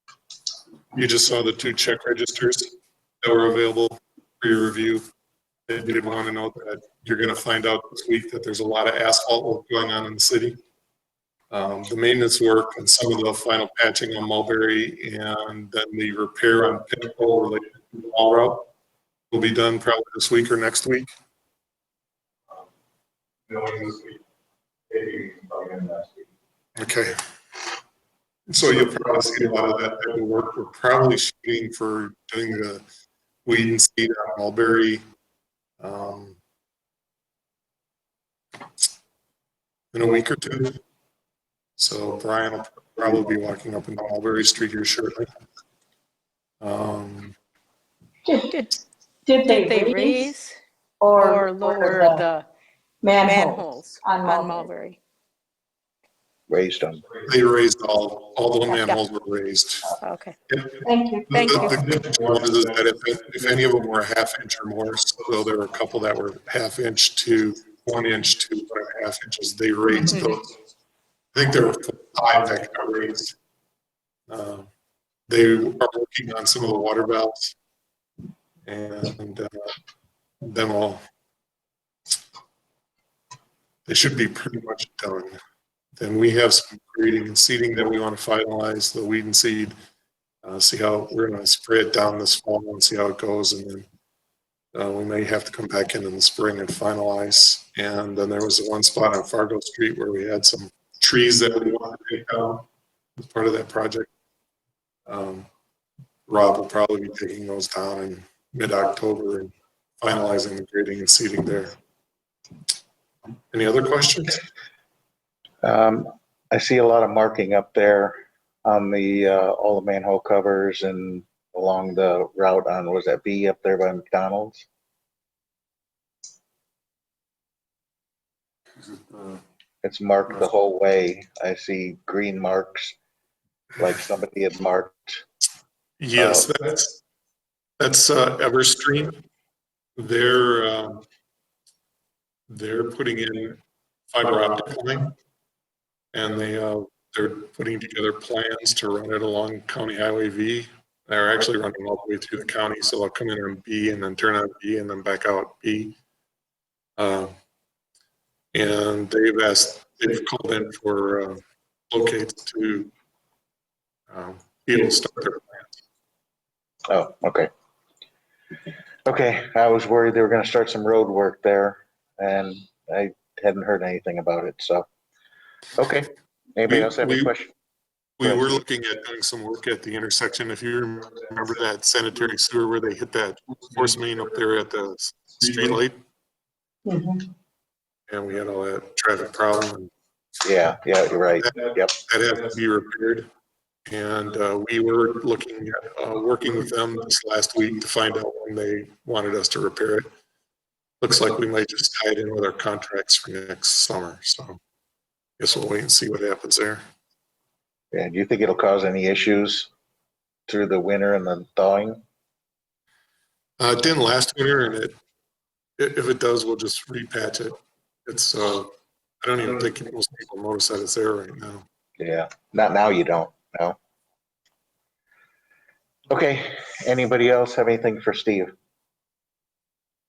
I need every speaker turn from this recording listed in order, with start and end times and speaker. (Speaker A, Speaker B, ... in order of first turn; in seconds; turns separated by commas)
Speaker A: 0.9-5.0, Speaker A: 5.7-10.6, Speaker A: 11.5-18.7, Speaker A: 19.3-21.1, Speaker A: 26.8-27.2, Speaker A: 28.5-32.8, Speaker A: 33.5-35.0, Speaker A: 35.8-36.4, Speaker A: 39.9-40.8, Speaker A: 41.8-45.3, Speaker A: 46.6-47.4, Speaker B: 48.2-48.5, Speaker C: 48.3-48.7, Speaker B: 49.2-50.3, Speaker C: 49.6-50.6, Speaker B: 51.0-52.2, Speaker C: 51.2-52.5, Speaker B: 53.0-54.7, Speaker C: 53.2-55.0, Speaker D: 56.5-57.0, Speaker A: 57.3-59.9, Speaker C: 58.7-59.0, Speaker C: 60.0-60.4, Speaker A: 60.5-70.5, Speaker B: 60.8-61.6, Speaker A: 71.3-73.3, Speaker A: 74.3-74.7, Speaker A: 75.3-77.5, Speaker A: 78.7-79.5, Speaker A: 80.4-81.0, Speaker A: 83.9-85.4, Speaker A: 86.0-89.7, Speaker A: 90.4-93.9, Speaker A: 94.7-102.7, Speaker A: 103.2-104.1, Speaker A: 105.1-105.5, Speaker A: 106.3-111.7, Speaker A: 113.5-114.4, Speaker D: 115.6-124.7, Speaker D: 129.8-133.0, Speaker D: 133.8-135.2, Speaker A: 136.0-137.0, Speaker D: 136.2-136.5, Speaker A: 137.8-139.2, Speaker A: 140.0-141.0, Speaker A: 142.5-143.6, Speaker A: 144.1-145.1, Speaker A: 146.1-156.0, Speaker A: 157.0-157.3, Speaker A: 158.5-161.4, Speaker A: 161.9-162.9, Speaker A: 164.1-165.7, Speaker D: 166.9-167.5, Speaker D: 169.1-174.9, Speaker D: 175.8-177.5, Speaker A: 176.7-177.3, Speaker A: 178.2-186.0, Speaker D: 178.2-178.6, Speaker B: 186.9-187.2, Speaker A: 188.1-189.9, Speaker D: 190.4-192.0, Speaker A: 191.4-193.3, Speaker A: 193.9-200.1, Speaker A: 201.0-204.6, Speaker A: 205.4-206.8, Speaker D: 207.9-209.7, Speaker D: 210.5-212.0, Speaker A: 213.6-215.0, Speaker A: 215.8-218.7, Speaker A: 219.2-221.7, Speaker D: 222.0-223.8, Speaker D: 226.1-228.5